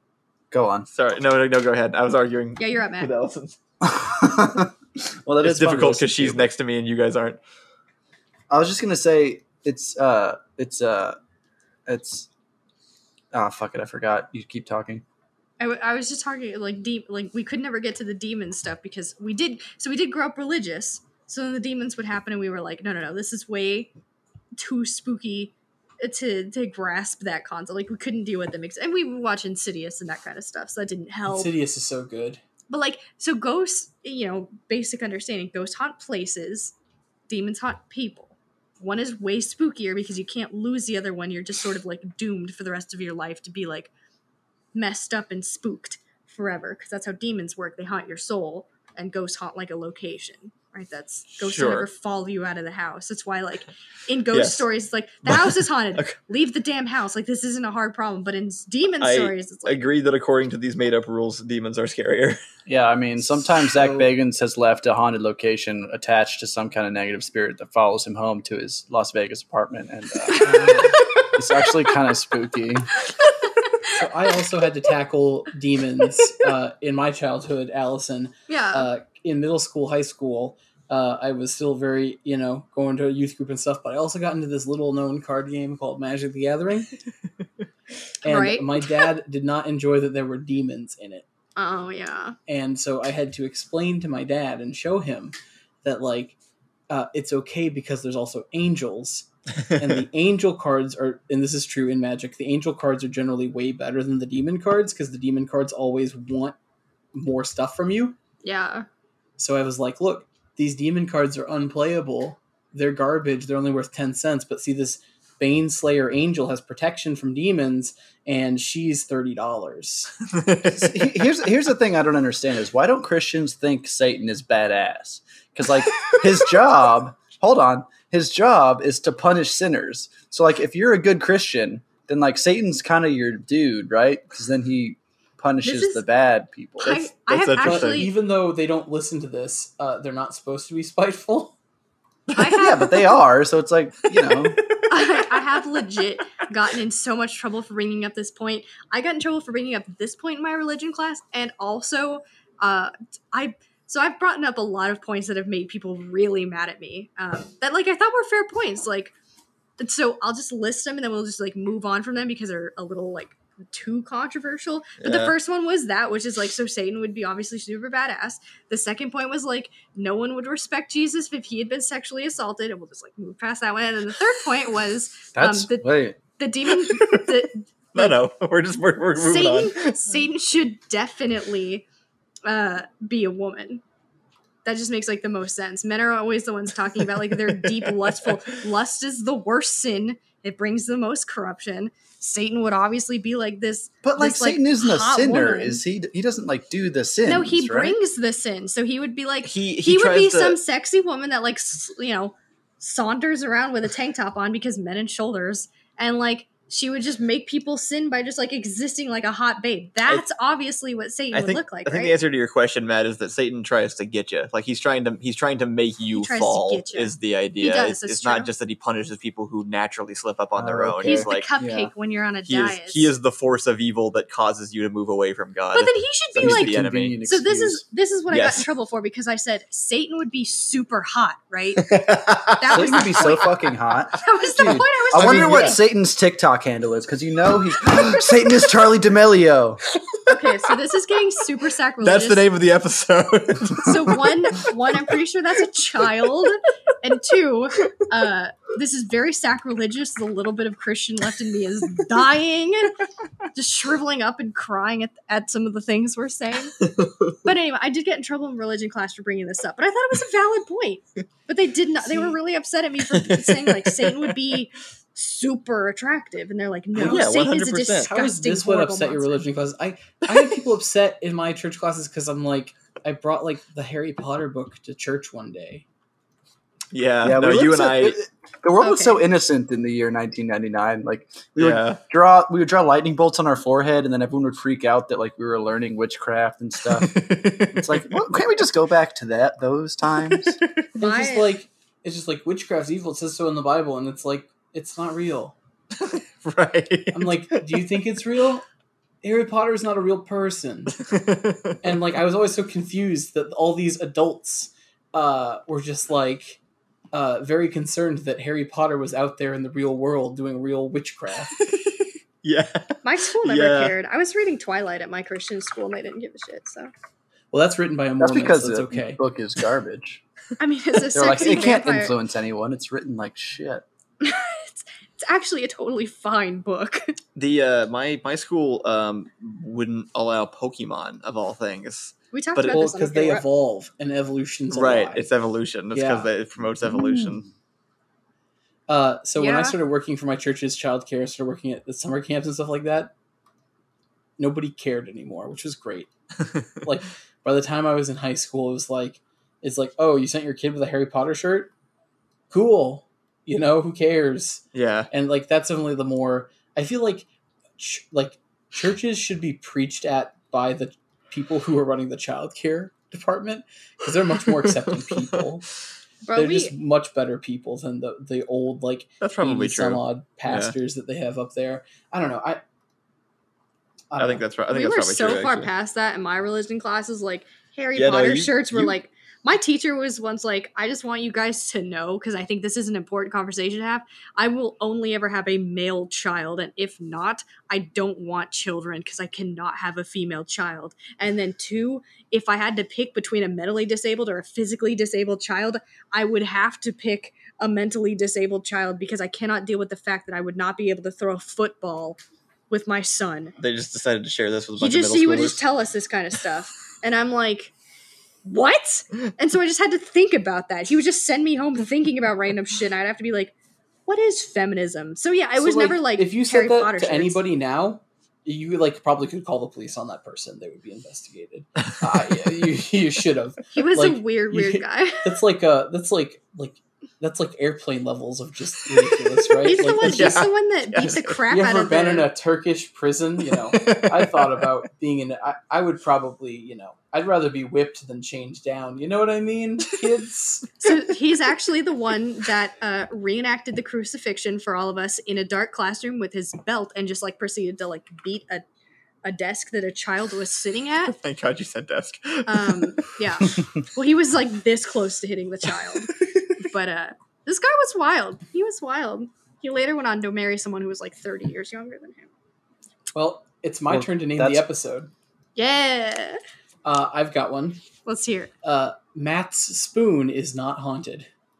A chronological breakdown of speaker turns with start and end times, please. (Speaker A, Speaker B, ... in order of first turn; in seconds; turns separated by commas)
Speaker A: 0.5-0.9, Speaker B: 0.9-3.6, Speaker C: 2.6-3.1, Speaker A: 3.8-4.7, Speaker A: 5.3-6.5, Speaker B: 5.4-7.4, Speaker A: 8.5-11.2, Speaker A: 11.9-12.3, Speaker A: 13.3-15.0, Speaker C: 15.6-23.9, Speaker C: 24.6-31.5, Speaker D: 31.3-32.4, Speaker C: 32.7-36.7, Speaker C: 37.3-43.9, Speaker C: 44.7-60.0, Speaker B: 51.4-51.9, Speaker B: 54.3-54.7, Speaker B: 55.3-56.1, Speaker B: 59.0-62.4, Speaker A: 62.7-72.9, Speaker D: 63.7-64.1, Speaker C: 70.3-70.7, Speaker D: 70.4-71.0, Speaker C: 73.2-73.9, Speaker D: 73.9-86.9, Speaker C: 78.5-78.9, Speaker D: 88.2-91.2, Speaker C: 88.2-89.1, Speaker C: 91.6-92.4, Speaker D: 92.5-96.4, Speaker D: 96.9-106.5, Speaker D: 107.1-108.2, Speaker C: 108.4-108.9, Speaker D: 109.4-120.1, Speaker B: 120.3-121.1, Speaker A: 120.7-137.1, Speaker C: 135.6-136.0, Speaker C: 136.8-138.1, Speaker B: 137.3-138.1, Speaker D: 137.6-141.6, Speaker C: 142.3-143.1, Speaker A: 142.5-144.6, Speaker C: 144.9-159.1, Speaker C: 159.8-178.2, Speaker B: 165.0-165.3, Speaker A: 175.3-176.2, Speaker B: 176.8-177.2, Speaker B: 177.9-180.0, Speaker C: 179.2-181.9, Speaker C: 182.4-183.8, Speaker C: 184.7-195.8, Speaker B: 187.6-188.3, Speaker A: 194.0-197.9, Speaker C: 197.2-212.2, Speaker B: 199.4-200.6, Speaker B: 211.3-221.5, Speaker C: 216.1-218.5, Speaker A: 220.6-221.9, Speaker C: 221.0-223.1, Speaker B: 222.5-227.2, Speaker C: 225.7-232.0, Speaker A: 226.4-227.8, Speaker B: 228.3-228.7, Speaker B: 231.8-233.2, Speaker C: 232.5-233.6, Speaker A: 232.7-239.8, Speaker C: 234.2-235.8, Speaker B: 234.6-235.8, Speaker B: 240.1-240.6, Speaker C: 240.3-242.5, Speaker B: 242.0-244.7, Speaker C: 243.8-253.0, Speaker C: 253.5-256.8, Speaker B: 257.0-257.3, Speaker C: 257.4-269.4, Speaker B: 263.1-264.3, Speaker D: 267.0-267.2, Speaker B: 267.0-268.1, Speaker D: 268.1-275.9, Speaker B: 276.9-278.2, Speaker A: 277.2-290.6, Speaker C: 278.8-279.2, Speaker B: 281.6-282.0, Speaker B: 286.9-288.1, Speaker B: 290.3-290.6, Speaker D: 291.0-295.6, Speaker C: 291.0-291.6, Speaker B: 295.9-297.8, Speaker D: 297.1-298.6, Speaker D: 299.2-301.0, Speaker B: 301.0-301.8, Speaker D: 301.8-306.6, Speaker D: 307.1-311.5, Speaker B: 312.4-313.9, Speaker C: 313.0-316.9, Speaker D: 317.5-319.2, Speaker A: 318.2-320.2, Speaker C: 320.6-322.2, Speaker A: 321.1-323.9, Speaker C: 324.2-327.1, Speaker B: 327.4-332.8, Speaker C: 332.3-333.4, Speaker D: 332.7-335.3, Speaker B: 334.7-337.5, Speaker D: 335.9-336.3, Speaker D: 338.9-343.1, Speaker C: 339.4-339.8, Speaker D: 344.4-346.1, Speaker D: 346.8-351.7, Speaker D: 352.5-357.3, Speaker B: 354.7-355.1, Speaker D: 357.8-365.6, Speaker B: 364.6-365.4, Speaker C: 366.3-366.8, Speaker D: 366.3-372.6, Speaker B: 369.2-370.8, Speaker D: 374.1-374.4, Speaker B: 374.2-375.7, Speaker C: 374.7-402.2, Speaker B: 377.9-378.9, Speaker C: 402.7-403.6, Speaker B: 403.6-405.7, Speaker C: 404.8-407.7, Speaker C: 408.4-413.6, Speaker C: 414.1-417.4, Speaker D: 415.6-430.5, Speaker C: 423.7-425.4, Speaker B: 429.5-431.4, Speaker C: 429.6-432.3, Speaker D: 431.5-440.8, Speaker B: 433.7-434.6, Speaker C: 440.8-448.6, Speaker C: 449.2-451.2, Speaker B: 451.1-453.0, Speaker C: 452.5-462.3, Speaker B: 456.0-456.6, Speaker D: 463.1-465.1, Speaker A: 463.9-464.6, Speaker C: 465.6-466.4, Speaker D: 466.9-467.8, Speaker C: 468.1-468.5, Speaker D: 468.6-471.3